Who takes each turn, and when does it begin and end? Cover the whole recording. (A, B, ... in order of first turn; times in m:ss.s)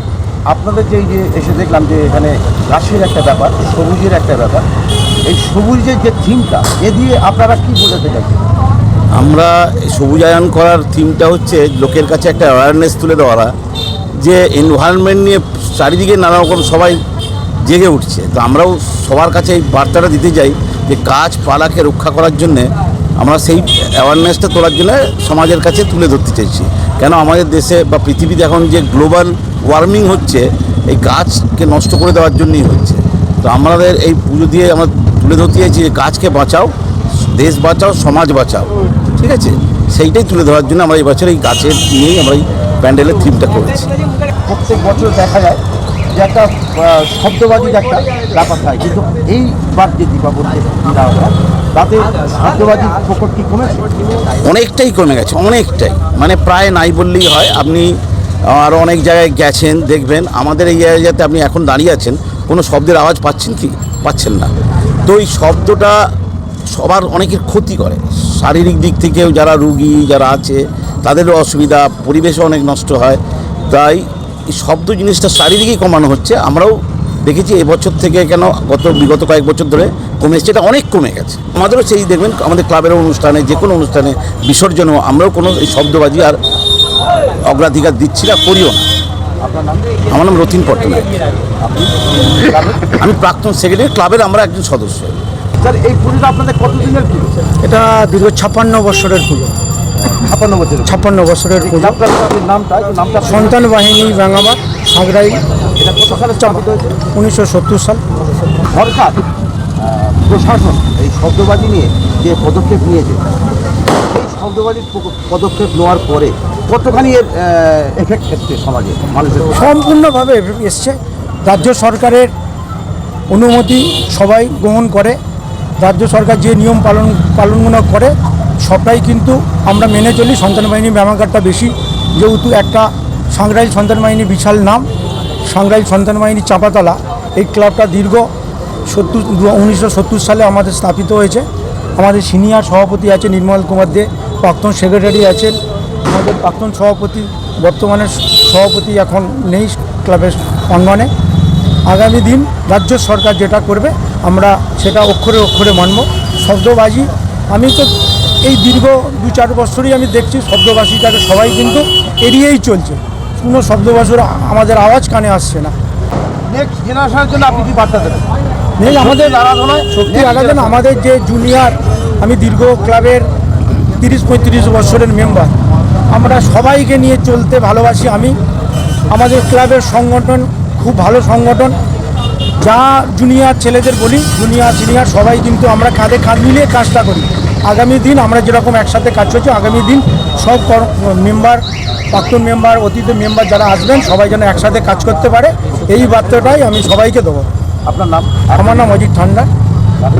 0:00.5-0:04.7 A
0:05.2-0:08.4 A
0:09.1-0:13.5 B
0:14.2-0:17.0 B
0:17.6-0:36.7 B
0:37.2-0:43.9 B
0:44.5-0:45.6 A
0:46.1-0:53.9 A
0:54.3-0:58.0 B
0:58.5-1:04.5 B
1:05.0-1:06.0 B
1:06.7-1:26.4 B
1:27.4-1:28.8 B
1:29.4-1:29.9 A
1:30.0-1:31.1 B
1:31.6-1:32.8 A
1:32.8-1:35.2 B
1:35.6-1:37.3 A
1:37.6-1:39.6 C
1:40.1-1:40.9 A
1:40.8-1:42.0 C
1:41.6-1:43.5 A
1:43.3-1:45.4 C
1:45.8-1:47.0 A
1:46.4-1:48.0 C
1:48.7-1:49.2 A
1:49.8-1:53.2 A
1:54.1-1:59.5 A
1:59.5-2:02.3 C
2:03.3-2:05.2 C
2:05.8-2:14.9 C
2:15.4-2:18.3 C
2:18.8-2:31.1 C
2:31.8-2:45.8 C
2:46.4-2:48.2 A
2:48.8-2:53.3 C
2:48.8-2:50.7 A
2:54.0-2:55.5 C
2:56.1-2:58.4 C
2:59.1-3:01.8 C
3:02.6-3:17.5 C
3:17.8-3:18.8 A
3:18.5-3:19.5 C